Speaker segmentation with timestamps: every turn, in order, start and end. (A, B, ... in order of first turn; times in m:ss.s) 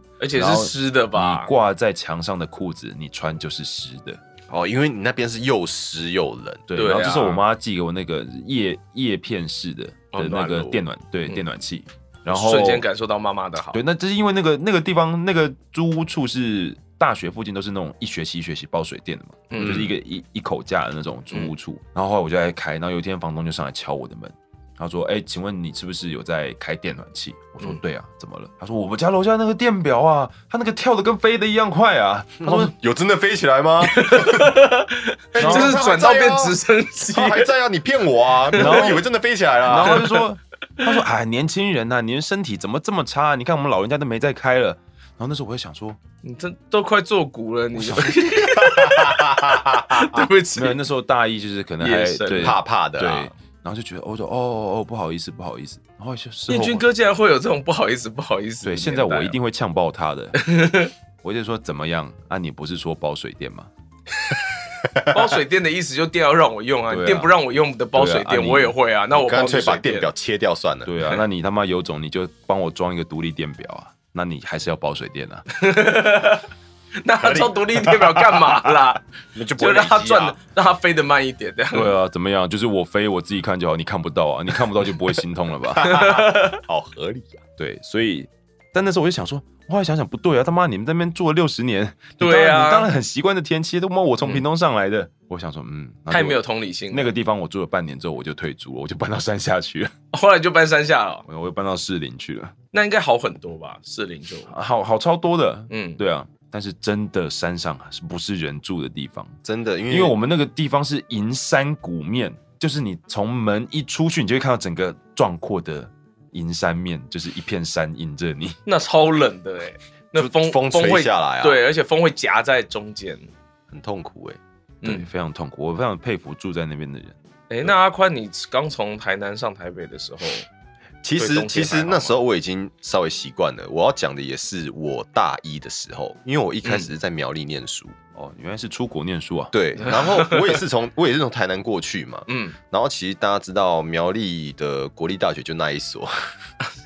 0:00.2-0:01.5 A
0:00.3-0:04.2 B
0:04.5-0:06.7 C
0:06.7-0:12.8 B
0:06.7-0:07.4 A
0:10.1-0:11.4 A
0:12.3-0:13.8 A
0:13.7-0:32.7 B
0:19.5-0:19.9 A
0:19.6-0:19.9 C
0:32.4-0:34.6 C
0:33.8-0:37.5 A
0:35.3-0:40.1 C
0:35.4-0:35.8 B
0:38.5-0:39.0 A
0:38.6-0:39.0 B
0:39.6-0:46.0 B
0:39.8-0:40.2 A
0:46.2-0:50.8 A
0:47.8-0:48.2 B
0:48.4-0:50.2 C
0:50.5-0:56.8 B
0:51.8-0:52.6 A
0:52.4-0:53.3 C
0:56.5-0:59.4 A
0:58.6-1:00.4 B
1:00.4-1:00.9 A
1:01.2-1:03.7 B
1:05.1-1:10.1 A
1:06.9-1:07.3 B
1:07.9-1:08.7 B
1:09.1-1:10.9 C
1:10.8-1:15.4 B
1:15.5-1:19.0 A
1:17.2-1:18.8 C
1:19.3-1:20.4 C
1:19.6-1:21.9 A
1:21.7-1:25.9 B
1:25.8-1:27.4 C
1:25.8-1:26.6 A
1:27.6-1:39.9 B
1:32.2-1:32.9 A
1:36.1-1:37.1 A
1:40.1-1:41.2 A
1:41.3-1:42.5 B
1:42.7-1:44.5 A
1:44.5-1:49.4 B
1:45.7-1:46.0 A
1:49.4-1:50.2 C
1:49.9-1:58.6 B
1:58.6-2:03.3 A
2:00.1-2:01.6 C
2:03.7-2:04.4 C
2:04.8-2:05.1 A
2:04.8-2:07.2 B
2:07.5-2:10.4 A
2:11.0-2:18.0 C
2:11.2-2:12.2 A
2:18.1-2:19.5 B
2:19.5-2:26.2 C
2:19.8-2:20.6 A
2:22.3-2:22.6 A